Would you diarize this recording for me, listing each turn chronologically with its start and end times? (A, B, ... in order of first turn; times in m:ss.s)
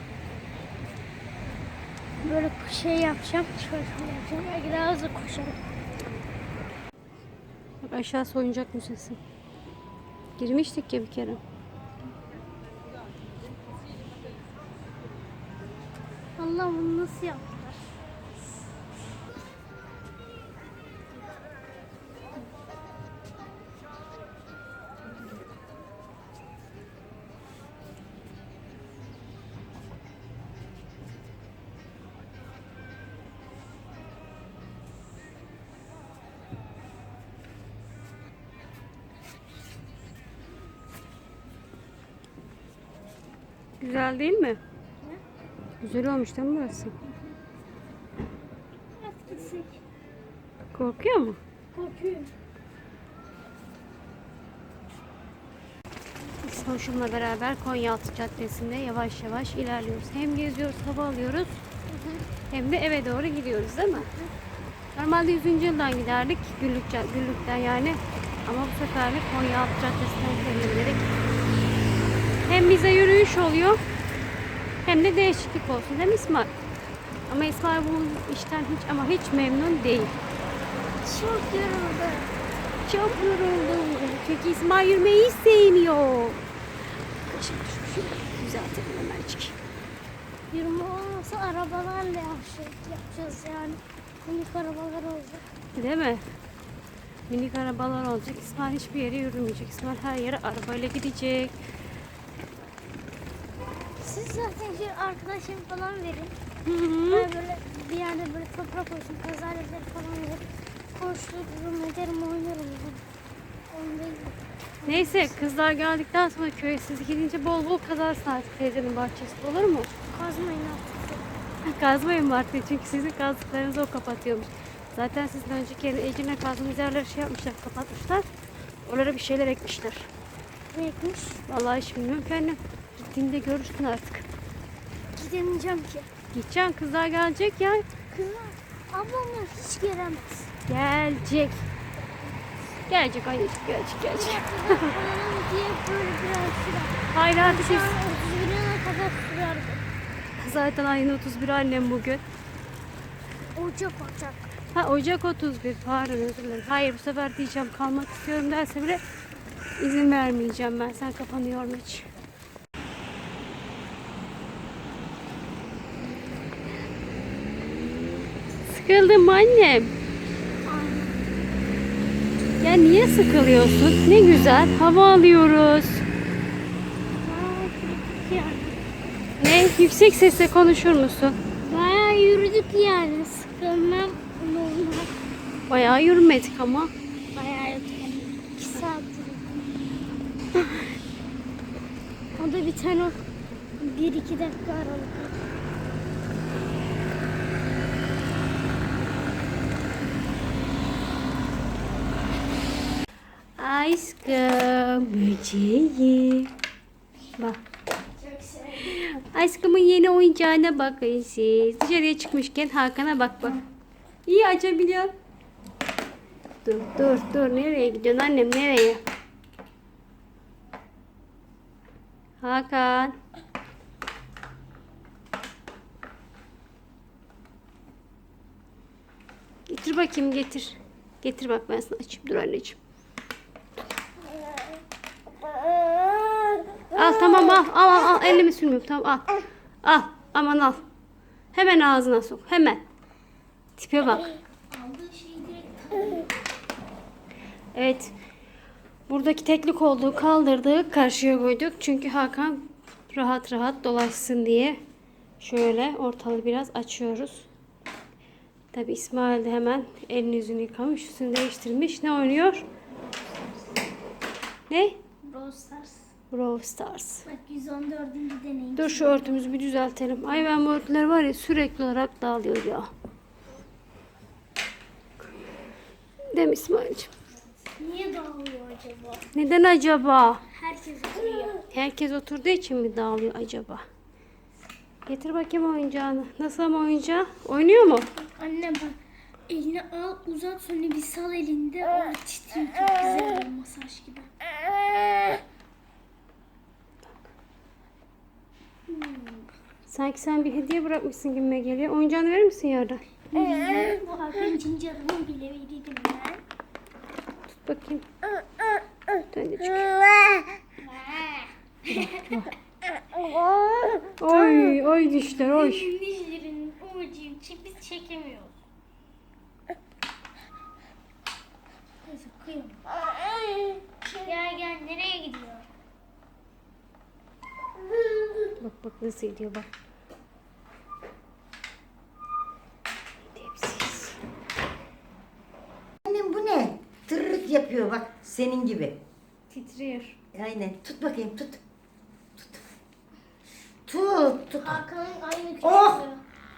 0:02.2-0:05.6 A
0:07.8-0:09.2 B
0:10.4-0:11.4 B
0:16.4-0:17.9 A
0:43.8-0:44.6 B
0:45.8-0:46.9 B
0:49.0-0:49.7 A
0:50.7-0:51.4 B
0:51.7-0:52.3 A
0:56.4-1:01.6 B
1:01.9-1:02.2 A
1:02.5-1:04.1 B
1:04.0-1:04.3 A
1:05.0-1:11.1 B
1:12.5-1:13.8 B
1:14.8-1:16.5 B
1:17.3-1:20.2 B
1:21.0-1:22.3 A
1:22.9-1:26.4 B
1:27.2-1:29.6 B
1:30.5-1:35.5 A
1:35.8-1:36.2 B
1:37.3-1:41.6 B
1:44.0-1:46.3 A
1:46.6-1:47.3 B
1:47.1-1:53.0 A
1:53.7-1:55.5 A
1:54.9-1:59.9 B
2:00.1-2:01.2 A
2:01.6-2:08.3 B
2:08.8-2:10.1 B
2:10.7-2:11.4 A
2:11.5-2:14.3 B
2:15.1-2:16.1 A
2:16.3-2:17.8 B
2:18.1-2:20.5 A
2:20.7-2:21.7 B
2:22.9-2:25.0 B
2:24.1-2:29.8 A
2:27.1-2:28.0 B
2:30.4-2:32.2 B
2:33.6-2:34.5 A
2:34.8-2:39.0 B
2:39.8-2:42.1 B
2:48.7-2:49.9 B
2:50.6-2:51.2 A
2:52.6-2:56.1 B
2:57.1-2:58.8 A
2:59.4-3:01.4 B
3:01.7-3:05.2 A
3:05.7-3:06.9 B
3:07.3-3:09.7 A
3:12.4-3:13.2 A
3:13.8-3:15.4 A
3:23.6-3:26.5 B
3:28.2-3:28.9 A
3:28.9-3:33.6 B
3:34.3-3:35.1 B
3:36.6-3:39.0 B
3:42.4-3:43.2 B
3:49.7-3:52.8 B
3:56.5-3:56.8 A
3:56.9-3:59.3 B
3:59.8-4:00.8 B
4:01.5-4:02.8 B
4:03.8-4:04.4 B
4:04.7-4:06.3 A
4:07.7-4:08.1 B
4:09.1-4:14.8 B
4:15.4-4:17.5 B
4:18.7-4:22.7 B
4:22.9-4:23.8 A
4:24.7-4:25.0 B
4:25.2-4:26.1 A
4:26.3-4:27.3 B
4:27.3-4:29.4 A
4:28.8-4:32.9 B
4:36.3-4:37.1 B
4:37.6-4:39.3 A
4:39.3-4:40.4 B
4:40.5-4:41.6 A
4:41.7-4:43.8 B
4:45.1-4:48.1 B
4:48.4-4:49.0 A
4:49.5-4:54.3 A
4:58.9-4:59.5 A
4:59.9-5:03.0 B
5:03.3-5:06.4 A
5:07.5-5:08.1 B
5:09.1-5:10.0 B
5:10.1-5:12.3 A
5:11.9-5:12.5 B
5:13.2-5:18.5 A
5:14.2-5:15.9 B
5:22.0-5:22.9 A
5:23.4-5:25.7 A
5:28.2-5:28.5 A
5:28.6-5:29.7 B
5:33.3-5:34.2 B
5:36.0-5:39.0 C
5:39.5-5:40.2 B
5:40.3-5:41.6 C
5:42.4-5:42.7 C
5:43.9-5:44.8 C
5:44.6-5:46.2 A
5:45.6-5:46.0 C